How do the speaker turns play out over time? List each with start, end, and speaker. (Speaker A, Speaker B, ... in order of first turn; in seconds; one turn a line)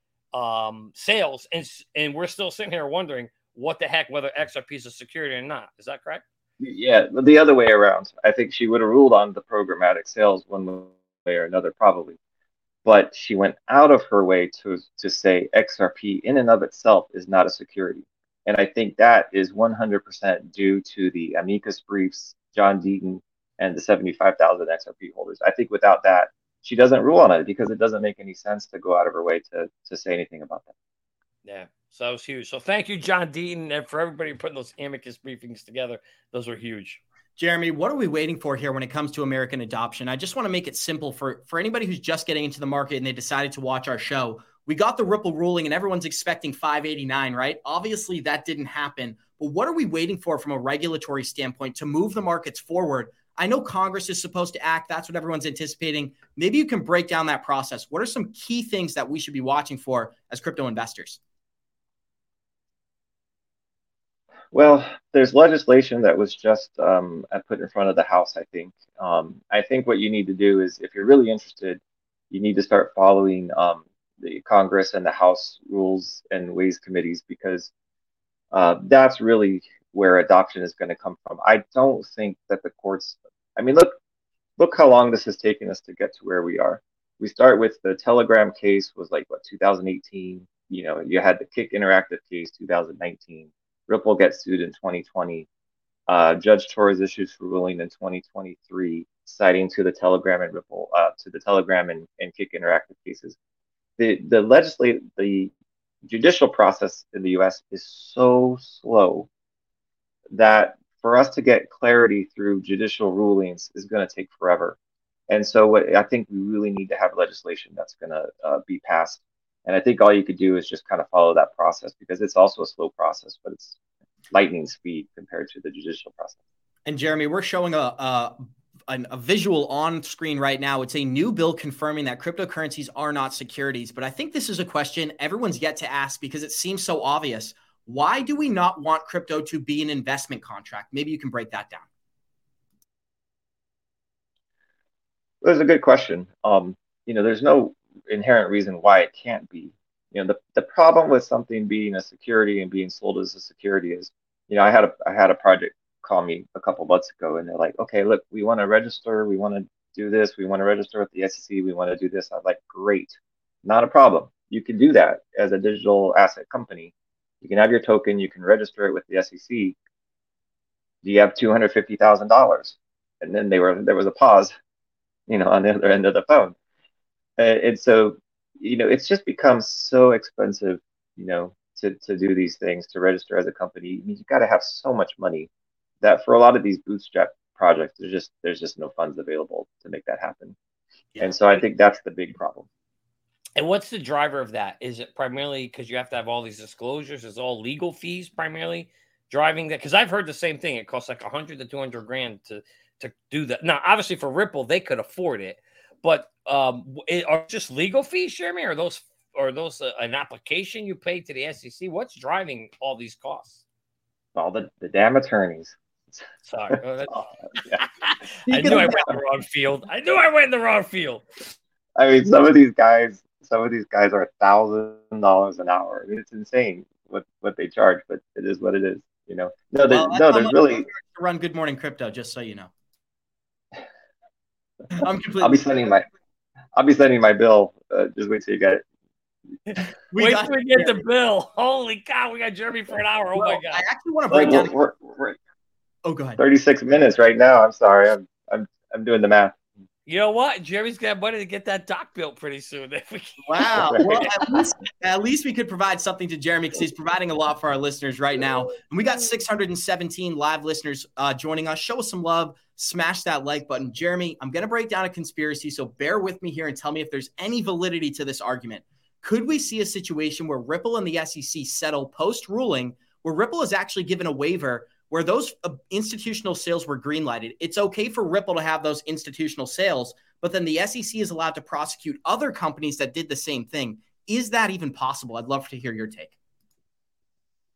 Speaker A: 0.3-6.2
Speaker B: 6.6-12.2
Speaker B: 12.8-30.7
Speaker A: 31.4-37.0
Speaker C: 37.4-61.2
Speaker B: 64.5-71.8
Speaker B: 72.3-77.7
Speaker B: 78.5-84.0
Speaker B: 84.6-95.5
Speaker B: 96.1-103.4
Speaker B: 104.0-105.5
Speaker B: 106.0-109.3
Speaker B: 110.3-114.8
Speaker B: 115.3-123.8
Speaker B: 124.3-126.4
Speaker C: 126.9-141.9
Speaker B: 145.4-169.8
Speaker B: 171.0-174.5
Speaker B: 175.3-176.6
Speaker B: 177.4-185.5
Speaker B: 186.0-190.6
Speaker B: 191.2-192.7
Speaker A: 193.6-213.6
Speaker B: 214.3-216.2
Speaker A: 216.5-221.3
Speaker C: 218.5-219.2
Speaker B: 222.0-230.9
Speaker C: 229.9-232.7
Speaker C: 235.0-235.6
Speaker B: 235.4-236.0
Speaker B: 236.7-238.8
Speaker C: 240.1-241.0
Speaker A: 240.2-243.8
Speaker C: 243.4-244.8
Speaker B: 244.3-245.4
Speaker C: 246.1-246.4
Speaker B: 246.4-249.6
Speaker A: 250.1-254.6
Speaker C: 253.5-286.4